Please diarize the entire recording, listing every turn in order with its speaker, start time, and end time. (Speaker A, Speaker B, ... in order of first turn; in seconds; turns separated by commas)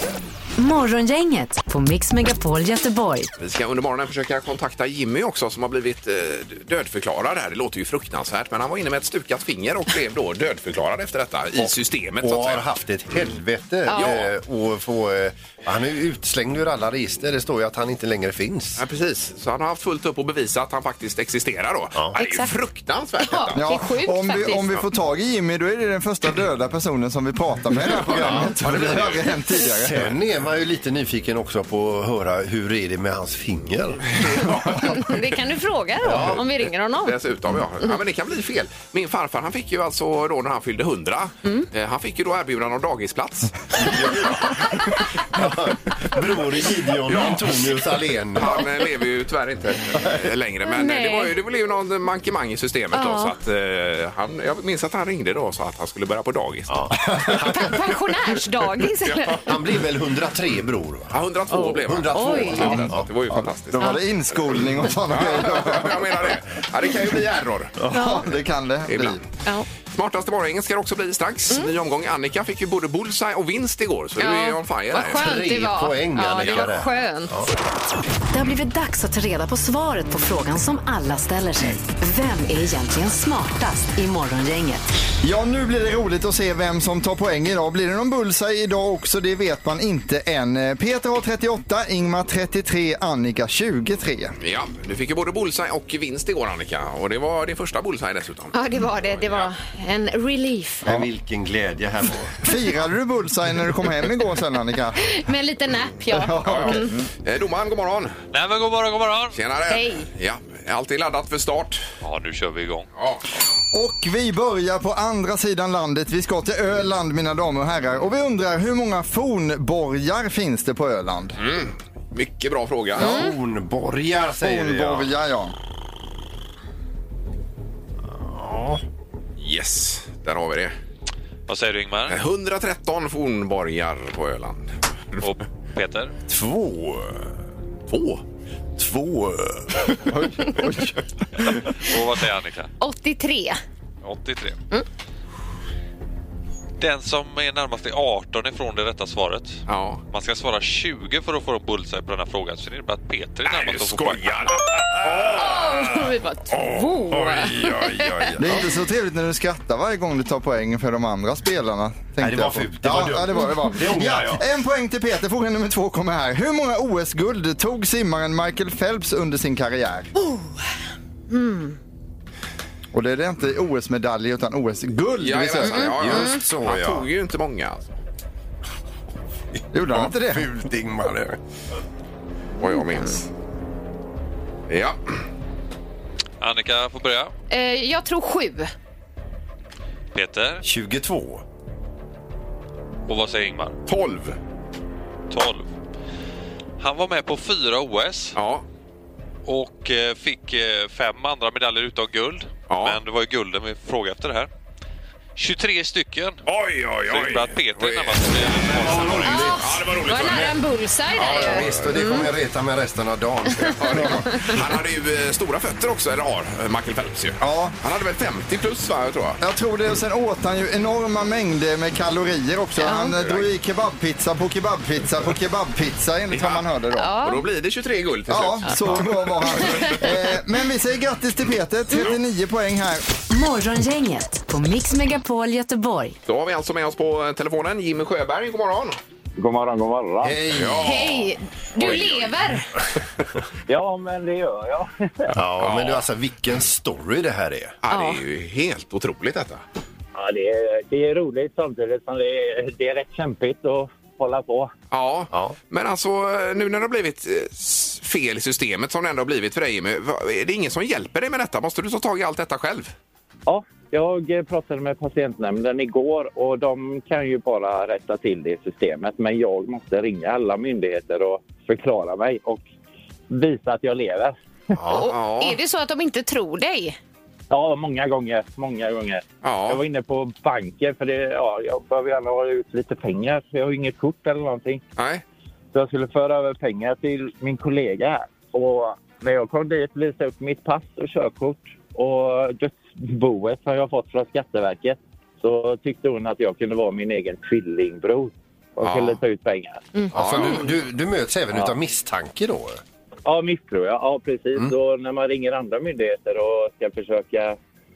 Speaker A: 0.6-3.3, Speaker B: 3.4-12.7, Speaker C: 11.6-18.8, Speaker D: 13.9-14.1, Speaker B: 13.9-14.3, Speaker B: 18.8-23.6, Speaker D: 22.1-22.5, Speaker D: 23.3-24.7, Speaker E: 23.5-30.1, Speaker C: 27.8-29.1, Speaker B: 28.3-29.3, Speaker C: 29.6-34.9, Speaker B: 34.2-35.0, Speaker D: 34.6-37.1, Speaker C: 36.0-36.4, Speaker B: 36.1-36.4, Speaker B: 37.0-44.6, Speaker C: 43.8-48.7, Speaker B: 47.1-47.6, Speaker B: 48.3-57.4, Speaker D: 50.7-51.3, Speaker D: 52.9-53.3, Speaker C: 56.7-57.9, Speaker D: 57.4-59.5, Speaker B: 59.0-59.4, Speaker C: 59.4-61.2, Speaker B: 61.1-63.9, Speaker D: 61.5-62.8, Speaker C: 61.8-63.1, Speaker E: 63.3-66.3, Speaker B: 64.5-67.7, Speaker E: 67.8-69.2, Speaker D: 67.9-68.2, Speaker B: 68.9-69.2, Speaker B: 69.9-75.3, Speaker D: 74.2-77.3, Speaker C: 75.0-77.5, Speaker B: 76.4-76.7, Speaker A: 78.3-84.9, Speaker E: 85.2-94.3, Speaker B: 94.4-99.5, Speaker D: 98.5-100.9, Speaker C: 100.8-102.4, Speaker E: 102.4-105.0, Speaker D: 105.0-106.9, Speaker E: 106.1-107.0, Speaker B: 106.4-108.1, Speaker F: 108.3-109.3, Speaker B: 109.3-111.8, Speaker D: 109.7-110.1, Speaker F: 112.0-112.8, Speaker E: 113.7-121.4, Speaker B: 121.4-123.2, Speaker C: 123.0-125.1, Speaker D: 123.0-123.3, Speaker E: 124.4-125.5, Speaker C: 128.1-128.8, Speaker B: 129.4-130.7, Speaker F: 131.5-132.2, Speaker B: 132.1-135.2, Speaker F: 135.2-136.1, Speaker C: 136.3-137.3, Speaker B: 137.9-138.2, Speaker C: 138.8-140.9, Speaker E: 140.4-140.8, Speaker F: 141.8-142.7, Speaker D: 142.8-143.6, Speaker F: 144.0-144.6, Speaker F: 146.8-149.6, Speaker B: 149.7-150.0, Speaker F: 150.1-154.4, Speaker B: 153.4-155.9, Speaker D: 155.3-158.3, Speaker C: 157.1-158.5, Speaker E: 158.4-170.1, Speaker C: 162.2-164.4, Speaker D: 170.2-170.5, Speaker D: 171.3-171.8, Speaker E: 172.9-176.0, Speaker B: 175.2-177.9, Speaker D: 175.7-176.4, Speaker C: 175.9-177.1, Speaker C: 179.5-181.4, Speaker E: 179.7-180.5, Speaker B: 182.6-183.3, Speaker B: 184.7-185.2, Speaker F: 186.4-187.3, Speaker D: 187.5-188.7, Speaker F: 190.1-190.6, Speaker C: 190.6-191.4, Speaker F: 193.1-193.8, Speaker B: 193.9-194.4, Speaker F: 195.3-195.7, Speaker F: 196.8-198.3, Speaker B: 198.3-198.6, Speaker F: 199.4-204.5, Speaker B: 202.7-203.0, Speaker F: 205.3-206.4, Speaker B: 206.4-210.6, Speaker F: 207.1-209.6, Speaker C: 208.8-209.6, Speaker D: 209.2-212.3, Speaker C: 210.1-210.5, Speaker B: 211.2-212.2, Speaker C: 211.2-214.3, Speaker B: 213.7-219.4, Speaker E: 217.4-217.7, Speaker E: 219.4-227.1, Speaker D: 222.8-223.1, Speaker B: 223.2-223.4, Speaker B: 226.3-226.7, Speaker D: 227.0-227.4, Speaker B: 227.2-229.9, Speaker E: 228.3-233.1, Speaker D: 229.6-230.0, Speaker A: 233.3-236.2, Speaker B: 236.2-239.0, Speaker G: 239.4-240.4, Speaker C: 240.2-241.2, Speaker B: 240.5-242.4, Speaker D: 240.8-242.7, Speaker G: 243.7-245.3, Speaker C: 245.3-247.7, Speaker B: 245.6-246.1, Speaker B: 247.8-249.6, Speaker D: 247.9-248.2, Speaker G: 250.1-254.7, Speaker B: 254.9-262.9, Speaker G: 263.4-272.6, Speaker G: 273.3-274.4, Speaker C: 274.8-275.1, Speaker D: 274.9-277.0, Speaker B: 274.9-275.6, Speaker G: 277.5-284.8, Speaker B: 279.4-279.8, Speaker B: 285.0-285.2, Speaker G: 285.7-299.9, Speaker B: 298.8-299.2, Speaker C: 300.1-302.8, Speaker B: 300.1-300.7, Speaker G: 303.2-307.6